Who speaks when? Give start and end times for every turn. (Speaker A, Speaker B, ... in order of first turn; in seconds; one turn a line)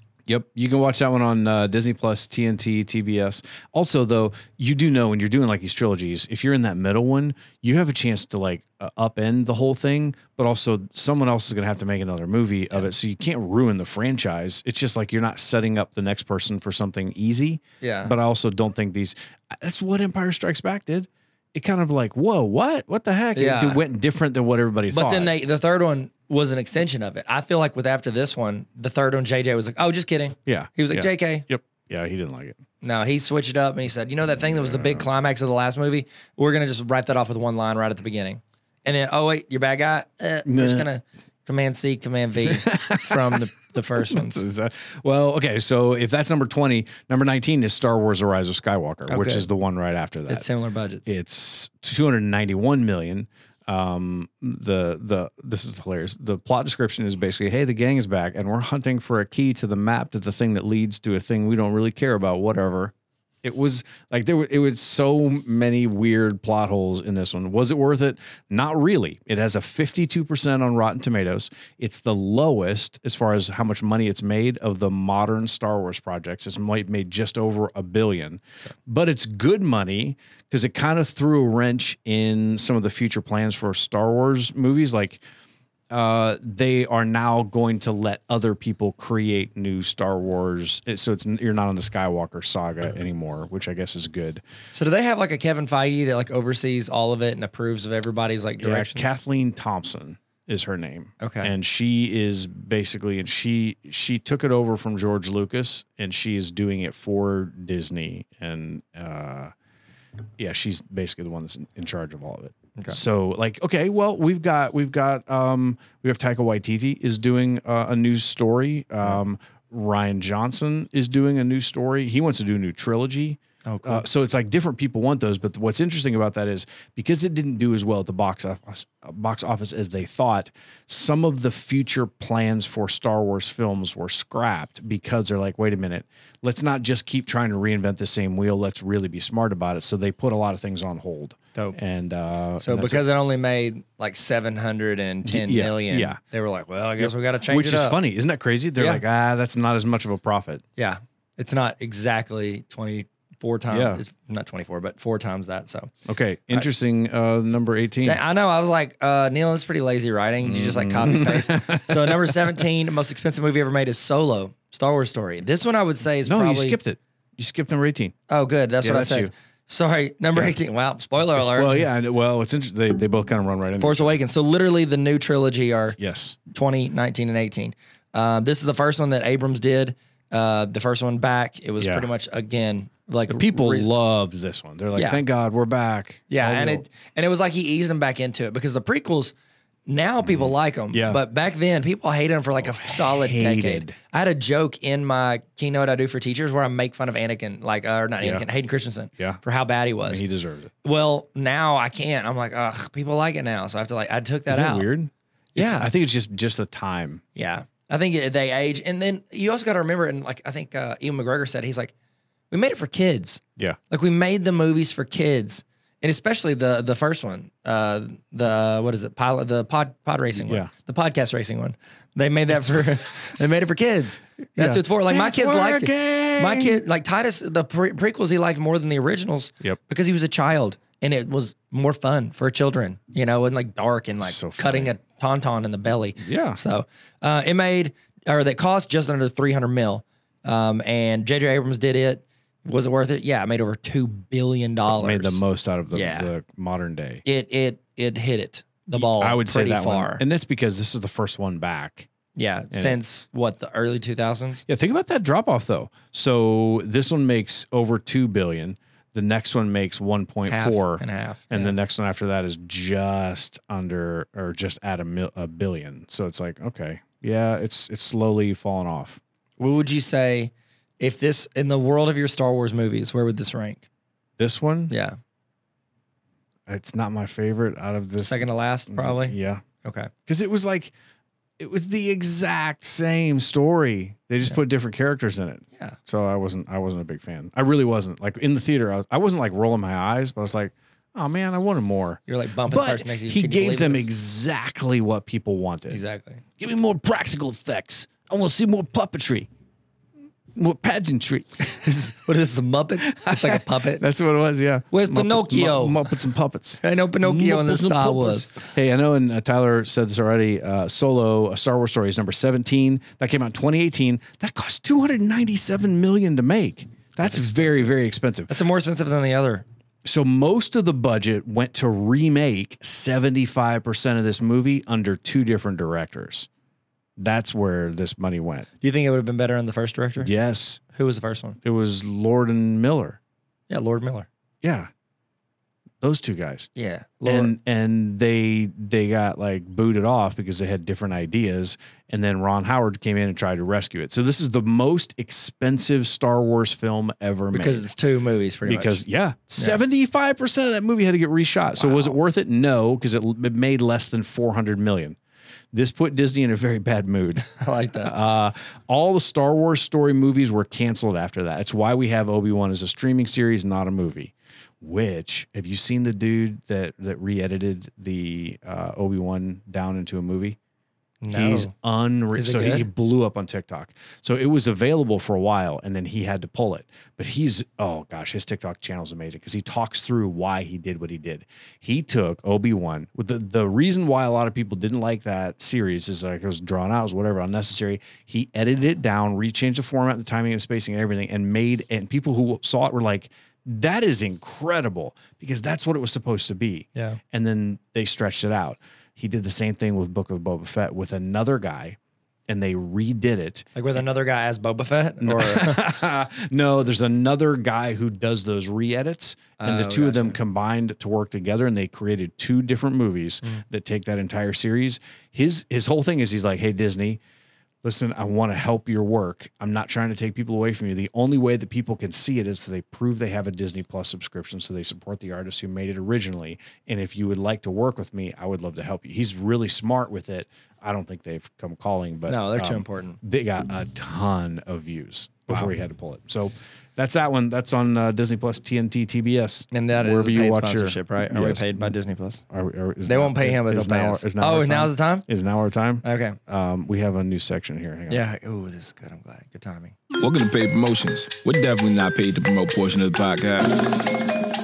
Speaker A: 0.3-25.3
Speaker B: 17.8-18.1
Speaker B: 23.3-23.8
Speaker B: 24.9-31.4
Speaker A: 30.4-32.6
Speaker B: 32.8-44.4
Speaker A: 34.4-35.1
Speaker A: 40.5-40.9
Speaker A: 42.4-43.4
Speaker A: 44.1-50.5
Speaker B: 49.1-49.5
Speaker B: 50.3-51.1
Speaker A: 51.1-85.2
Speaker A: 85.9-94.4
Speaker B: 94.7-99.1
Speaker A: 98.6-109.5
Speaker B: 101.2-101.5
Speaker A: 110.4-143.0
Speaker B: 123.7-124.0
Speaker B: 142.6-148.0
Speaker A: 145.2-146.2
Speaker A: 147.0-150.6
Speaker B: 148.8-149.0
Speaker B: 150.8-155.9
Speaker A: 153.7-154.0
Speaker A: 156.1-158.2
Speaker B: 158.0-166.8
Speaker A: 160.4-162.6
Speaker A: 166.2-168.1
Speaker B: 168.3-171.9
Speaker A: 168.8-169.3
Speaker A: 171.3-174.2
Speaker B: 173.8-183.9
Speaker A: 176.0-176.4
Speaker A: 181.8-182.1
Speaker A: 183.3-186.8
Speaker B: 184.9-185.2
Speaker B: 186.3-189.3
Speaker B: 189.9-200.2
Speaker A: 190.2-191.2
Speaker A: 192.6-193.9
Speaker A: 198.2-198.4
Speaker A: 200.0-200.7
Speaker B: 200.8-204.9
Speaker A: 204.5-207.2
Speaker B: 205.5-205.9
Speaker B: 207.3-211.9
Speaker B: 212.5-245.4
Speaker A: 220.4-220.7
Speaker A: 222.5-222.8
Speaker A: 224.6-226.8
Speaker A: 234.2-234.9
Speaker A: 236.2-236.6
Speaker A: 244.8-247.2
Speaker B: 245.9-246.3
Speaker B: 247.2-250.2
Speaker A: 248.9-252.1
Speaker B: 252.3-254.6
Speaker A: 252.7-253.0
Speaker A: 254.7-269.2
Speaker B: 260.5-261.7
Speaker B: 269.6-273.9
Speaker A: 274.4-274.9
Speaker B: 274.9-275.2
Speaker A: 276.7-279.6
Speaker B: 278.2-280.1
Speaker A: 280.2-280.9
Speaker A: 281.6-296.0
Speaker B: 292.3-294.1
Speaker B: 295.9-296.4
Speaker A: 296.6-299.5
Speaker A: 300.5-302.1
Speaker B: 301.8-304.0
Speaker A: 303.0-318.5
Speaker B: 304.9-306.1
Speaker B: 306.8-308.6
Speaker B: 317.2-317.9
Speaker B: 318.5-319.6
Speaker A: 320.0-326.5
Speaker A: 327.2-328.7
Speaker B: 328.8-330.3
Speaker A: 330.2-330.8
Speaker B: 330.9-331.6
Speaker A: 331.6-333.2
Speaker B: 333.7-334.3
Speaker A: 334.6-334.9
Speaker A: 336.0-336.7
Speaker B: 336.7-337.5
Speaker A: 337.2-347.9
Speaker B: 347.5-349.0
Speaker A: 348.6-355.2
Speaker B: 351.8-352.1
Speaker A: 355.7-370.6
Speaker B: 357.4-358.1
Speaker B: 371.2-371.7
Speaker A: 371.3-402.0
Speaker B: 372.3-372.9
Speaker A: 402.5-403.7
Speaker B: 403.7-405.9
Speaker A: 405.2-417.2
Speaker B: 409.6-410.4
Speaker A: 417.8-441.9
Speaker B: 432.3-433.2
Speaker B: 439.7-442.4
Speaker A: 442.5-448.2
Speaker B: 443.1-445.2
Speaker B: 446.0-446.4
Speaker B: 448.1-449.9
Speaker C: 450.2-454.0